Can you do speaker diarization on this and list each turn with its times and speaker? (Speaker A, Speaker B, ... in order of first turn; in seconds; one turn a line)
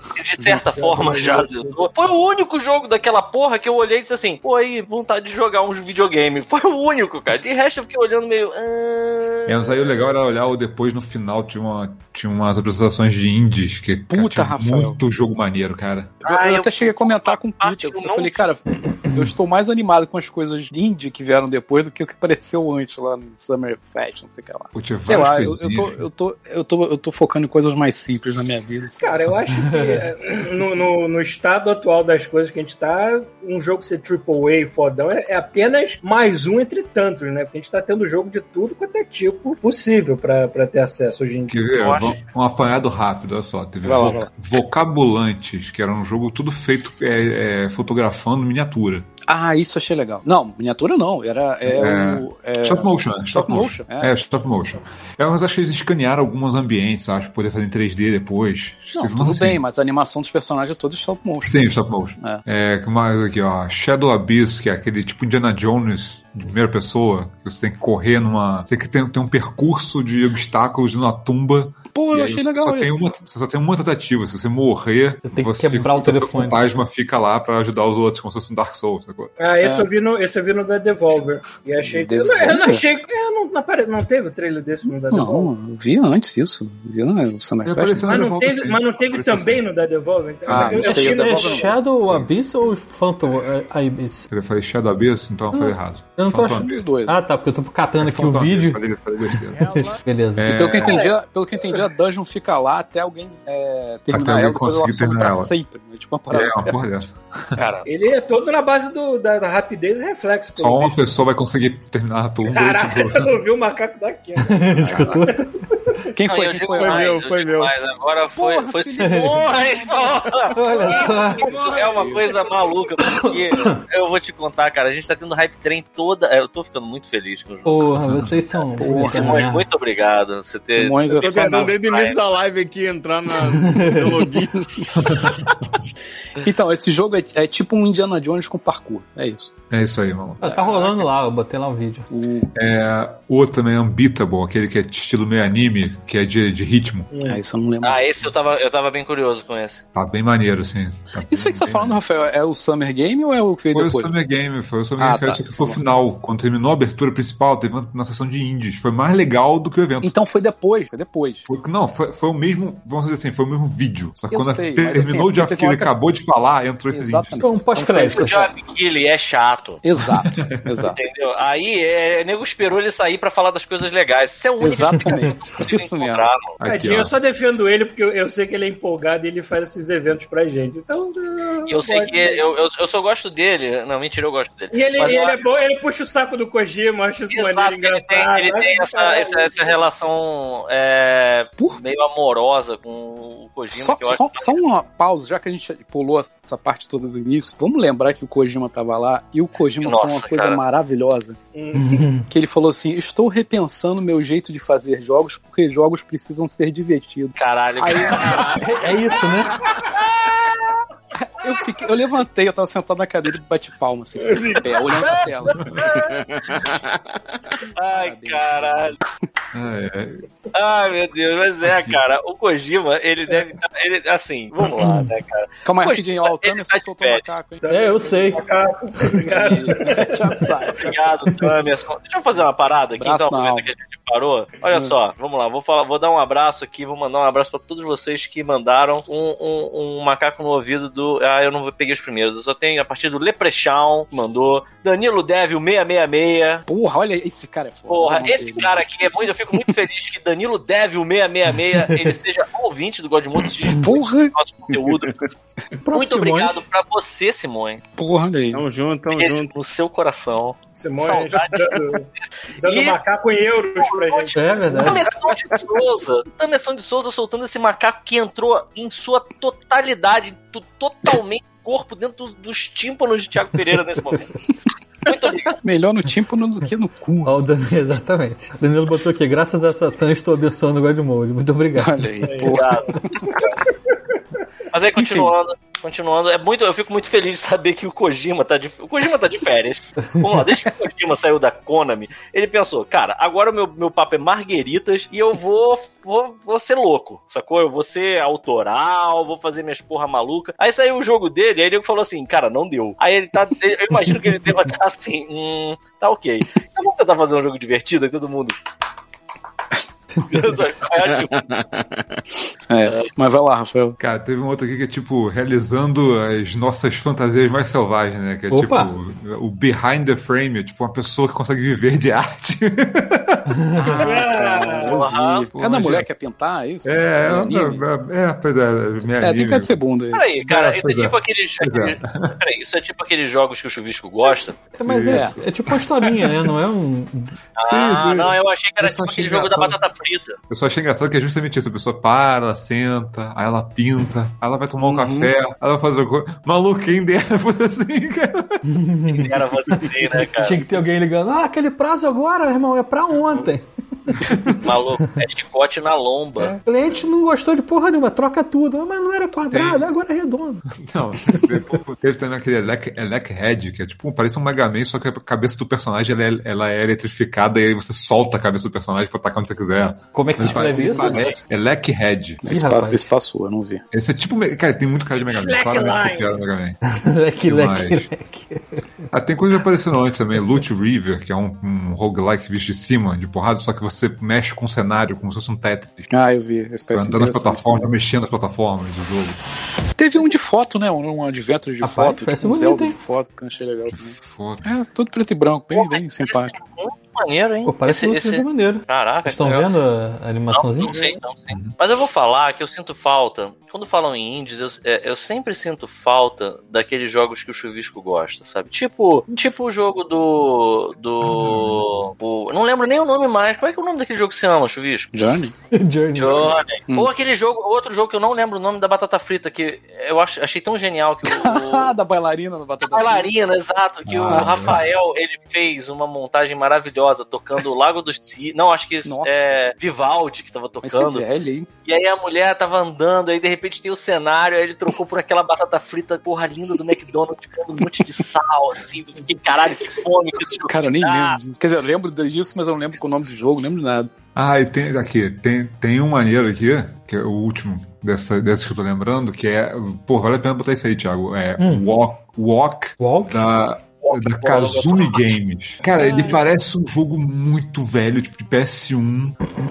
Speaker A: 0.1-9.9
Speaker B: 0.5-1.9
Speaker C: 9.4-16.1
Speaker D: 14.1-15.0
Speaker D: 16.2-29.2
Speaker A: 16.2-18.4
Speaker C: 24.7-26.0
Speaker B: 29.0-42.1
Speaker E: 29.6-30.0
Speaker C: 41.5-49.1
Speaker A: 41.8-42.2
Speaker D: 43.8-44.3
Speaker D: 49.3-54.1
Speaker C: 51.7-59.6
Speaker D: 58.9-61.6
Speaker C: 61.4-79.3
Speaker D: 71.9-73.0
Speaker E: 75.2-76.7
Speaker B: 79.4-85.5
Speaker D: 79.6-79.9
Speaker D: 81.8-82.8
Speaker D: 85.1-88.2
Speaker C: 87.6-89.6
Speaker B: 88.1-91.7
Speaker C: 90.5-90.9
Speaker D: 90.5-91.7
Speaker E: 90.8-94.3
Speaker C: 92.0-92.7
Speaker C: 94.3-96.8
Speaker E: 95.5-98.8
Speaker D: 96.5-97.2
Speaker C: 98.0-99.7
Speaker F: 99.6-100.0
Speaker E: 99.9-100.7
Speaker C: 100.4-101.0
Speaker D: 100.5-106.8
Speaker C: 104.1-105.5
Speaker C: 106.3-107.6
Speaker B: 107.8-111.0
Speaker C: 110.6-113.4
Speaker B: 112.5-116.0
Speaker E: 114.5-115.4
Speaker D: 114.8-115.2
Speaker D: 116.1-117.2
Speaker A: 116.2-128.0
Speaker F: 116.7-117.7
Speaker D: 118.3-120.1
Speaker E: 119.0-119.3
Speaker E: 120.5-121.4
Speaker B: 120.7-122.7
Speaker D: 121.6-122.2
Speaker E: 123.0-123.8
Speaker E: 127.7-129.6
Speaker C: 128.1-128.3
Speaker D: 128.8-129.4
Speaker A: 128.8-132.2
Speaker D: 130.7-131.7
Speaker F: 131.1-135.2
Speaker E: 133.6-134.1
Speaker D: 134.3-135.3
Speaker C: 135.0-135.4
Speaker D: 136.4-139.5
Speaker C: 139.7-140.6
Speaker E: 140.4-142.1
Speaker D: 140.4-140.9
Speaker D: 142.1-142.5
Speaker C: 142.5-147.1
Speaker B: 147.1-147.4
Speaker D: 147.2-148.0
Speaker A: 147.8-149.8
Speaker C: 149.9-152.0
Speaker D: 151.3-154.1
Speaker C: 153.7-160.1
Speaker D: 155.0-155.8
Speaker D: 160.0-161.5
Speaker C: 161.5-167.4
Speaker D: 164.3-165.9
Speaker D: 166.9-168.3
Speaker E: 167.4-168.5
Speaker A: 168.1-169.8
Speaker D: 169.8-171.0
Speaker C: 170.0-170.7
Speaker A: 170.8-176.5
Speaker D: 174.6-176.3
Speaker C: 176.6-177.1
Speaker B: 176.6-182.4
Speaker A: 181.7-185.4
Speaker B: 184.7-189.8
Speaker A: 187.3-194.6
Speaker D: 193.7-201.4
Speaker A: 199.8-200.6
Speaker B: 201.5-202.1
Speaker E: 201.7-202.2
Speaker D: 202.3-208.7
Speaker A: 207.4-208.6
Speaker E: 208.5-209.6
Speaker B: 209.7-210.3
Speaker D: 211.2-215.8
Speaker B: 214.2-216.0
Speaker A: 215.7-216.2
Speaker F: 216.2-217.1
Speaker A: 217.7-219.0
Speaker D: 217.9-219.0
Speaker C: 219.5-220.2
Speaker A: 220.5-227.2
Speaker C: 221.6-222.0
Speaker E: 224.8-225.1
Speaker D: 225.6-228.3
Speaker B: 227.6-230.8
Speaker E: 227.7-228.4
Speaker D: 229.1-231.5
Speaker A: 230.7-246.6
Speaker D: 233.0-233.7
Speaker D: 246.7-248.9
Speaker A: 247.9-255.2
Speaker D: 253.7-254.3
Speaker E: 255.8-256.6
Speaker A: 255.9-257.8
Speaker D: 258.0-258.6
Speaker F: 258.5-259.5
Speaker A: 259.1-263.0
Speaker B: 260.8-262.0
Speaker B: 262.6-264.9
Speaker A: 263.8-274.4
Speaker E: 264.4-265.0
Speaker A: 275.0-275.6
Speaker D: 275.6-277.3
Speaker E: 277.2-282.3
Speaker D: 281.8-283.2
Speaker B: 282.2-282.6
Speaker A: 282.4-283.6
Speaker A: 284.7-308.6
Speaker D: 284.9-285.3
Speaker A: 310.2-311.5
Speaker F: 311.3-312.0
Speaker D: 312.7-314.0
Speaker A: 312.9-313.1
Speaker C: 314.0-324.5
Speaker E: 318.5-318.9
Speaker E: 323.5-324.0
Speaker D: 323.8-327.8
Speaker B: 324.0-325.0
Speaker A: 324.5-325.5
Speaker C: 325.5-326.1
Speaker C: 326.8-329.8
Speaker D: 329.2-330.2
Speaker A: 330.1-334.6
Speaker C: 330.4-332.3
Speaker E: 334.7-337.3
Speaker C: 334.9-336.3
Speaker D: 335.1-335.3
Speaker A: 337.6-340.4
Speaker C: 337.6-339.8
Speaker C: 340.5-348.6
Speaker D: 344.8-345.3
Speaker E: 348.6-353.6
Speaker A: 349.1-350.6
Speaker C: 353.1-353.5
Speaker C: 354.2-354.6
Speaker A: 354.6-356.6
Speaker E: 356.6-360.6
Speaker C: 359.5-359.9
Speaker C: 360.7-372.4
Speaker E: 370.1-371.4
Speaker D: 370.4-371.2
Speaker D: 372.4-373.8
Speaker E: 372.4-373.1
Speaker C: 373.9-376.8
Speaker B: 375.2-376.4
Speaker E: 376.9-378.8
Speaker C: 377.4-378.1
Speaker C: 379.1-386.1
Speaker D: 386.1-387.9
Speaker C: 386.9-389.4
Speaker D: 390.0-396.5
Speaker E: 391.8-393.0
Speaker C: 393.9-394.6
Speaker A: 395.7-399.7
Speaker E: 397.6-400.9
Speaker A: 400.5-415.1
Speaker B: 400.9-401.2
Speaker C: 411.2-412.0
Speaker D: 415.1-415.5
Speaker E: 415.7-416.5
Speaker A: 416.1-421.9
Speaker D: 421.2-423.3
Speaker A: 422.8-431.2
Speaker C: 424.1-424.8
Speaker D: 424.2-424.7
Speaker D: 429.0-429.4
Speaker D: 430.8-431.7
Speaker A: 431.9-441.4
Speaker D: 440.7-444.1
Speaker C: 444.4-459.4
Speaker E: 453.0-453.4
Speaker A: 454.0-455.2